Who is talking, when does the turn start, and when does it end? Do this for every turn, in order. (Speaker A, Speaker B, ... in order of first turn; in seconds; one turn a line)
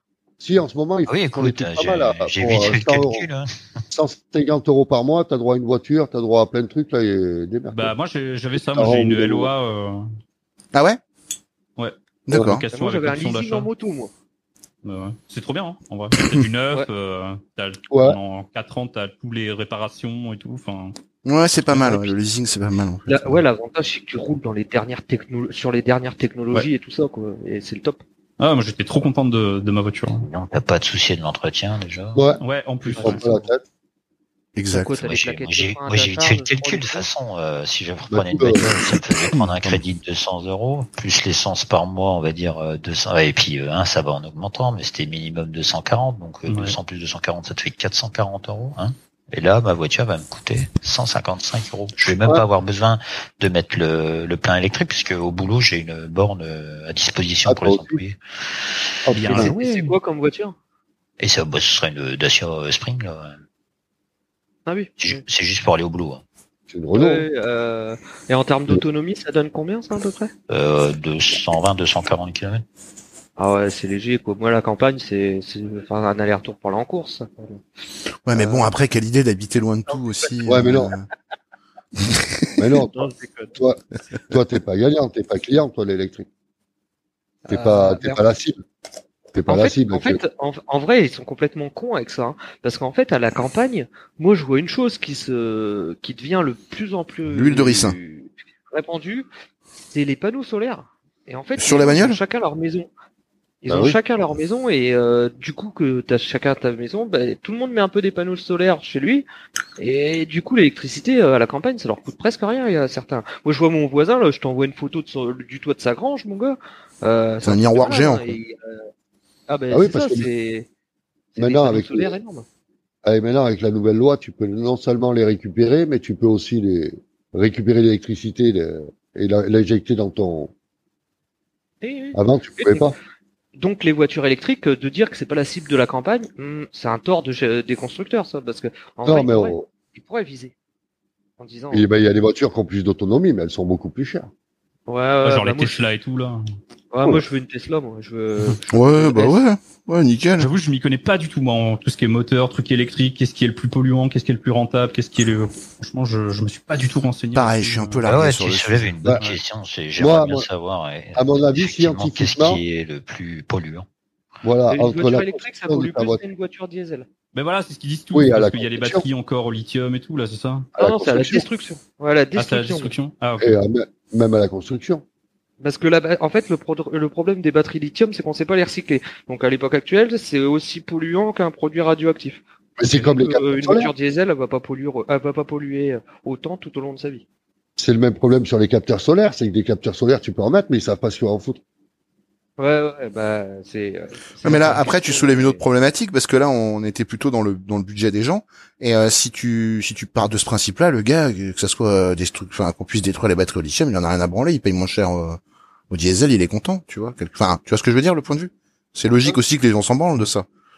Speaker A: 0.4-3.3
Speaker B: 1.1-3.5
Speaker A: 3.9-7.9
Speaker C: 7.7-10.1
Speaker A: 8.5-9.5
Speaker D: 10.7-11.0
Speaker C: 11.8-13.7
Speaker D: 12.3-12.6
Speaker A: 12.3-12.6
Speaker E: 12.7-14.1
Speaker C: 14.8-20.9
Speaker D: 16.2-16.4
Speaker A: 17.9-18.2
Speaker D: 21.2-23.4
Speaker C: 21.7-22.1
Speaker E: 23.1-28.0
Speaker C: 28.4-30.3
Speaker B: 30.2-32.3
Speaker A: 32.1-33.6
Speaker C: 32.4-33.4
Speaker D: 34.5-34.9
Speaker E: 34.7-37.0
Speaker B: 35.0-58.7
Speaker A: 38.1-38.7
Speaker D: 39.3-39.8
Speaker C: 46.5-46.8
Speaker A: 57.5-58.0
Speaker A: 59.0-59.5
Speaker C: 59.1-59.9
Speaker E: 59.3-60.5
Speaker B: 61.2-63.4
Speaker E: 64.7-65.2
Speaker B: 65.0-66.2
Speaker A: 66.7-67.3
Speaker E: 66.9-70.3
Speaker B: 70.5-72.6
Speaker E: 73.4-77.6
Speaker D: 78.2-81.1
Speaker E: 78.3-78.7
Speaker A: 80.5-80.9
Speaker D: 82.0-82.5
Speaker A: 82.6-82.9
Speaker E: 82.9-83.5
Speaker A: 83.5-86.3
Speaker E: 87.5-88.2
Speaker A: 87.5-88.6
Speaker A: 89.3-90.2
Speaker E: 89.5-99.3
Speaker D: 97.3-98.0
Speaker E: 99.9-102.9
Speaker D: 101.6-102.2
Speaker E: 103.6-109.2
Speaker A: 103.7-104.0
Speaker E: 109.8-118.8
Speaker D: 117.4-118.4
Speaker E: 119.5-120.7
Speaker A: 119.7-120.3
Speaker E: 121.3-122.4
Speaker A: 121.4-122.1
Speaker A: 123.0-130.5
Speaker E: 131.8-132.9
Speaker A: 132.1-132.9
Speaker E: 133.6-140.5
Speaker A: 139.1-139.7
Speaker E: 141.4-141.9
Speaker A: 141.7-144.3
Speaker E: 144.9-145.8
Speaker C: 145.2-146.4
Speaker E: 146.9-149.4
Speaker D: 148.7-150.5
Speaker C: 150.4-158.0
Speaker D: 157.3-158.9
Speaker B: 158.0-163.8
Speaker A: 160.0-160.4
Speaker A: 161.1-162.6
Speaker A: 164.4-166.2
Speaker E: 164.7-167.1
Speaker C: 167.3-170.7
Speaker A: 168.1-169.0
Speaker A: 170.7-171.4
Speaker E: 170.8-172.9
Speaker C: 172.3-173.6
Speaker A: 173.4-175.0
Speaker E: 175.6-187.2
Speaker A: 182.8-183.9
Speaker A: 187.8-191.6
Speaker E: 192.6-195.6
Speaker D: 194.4-210.4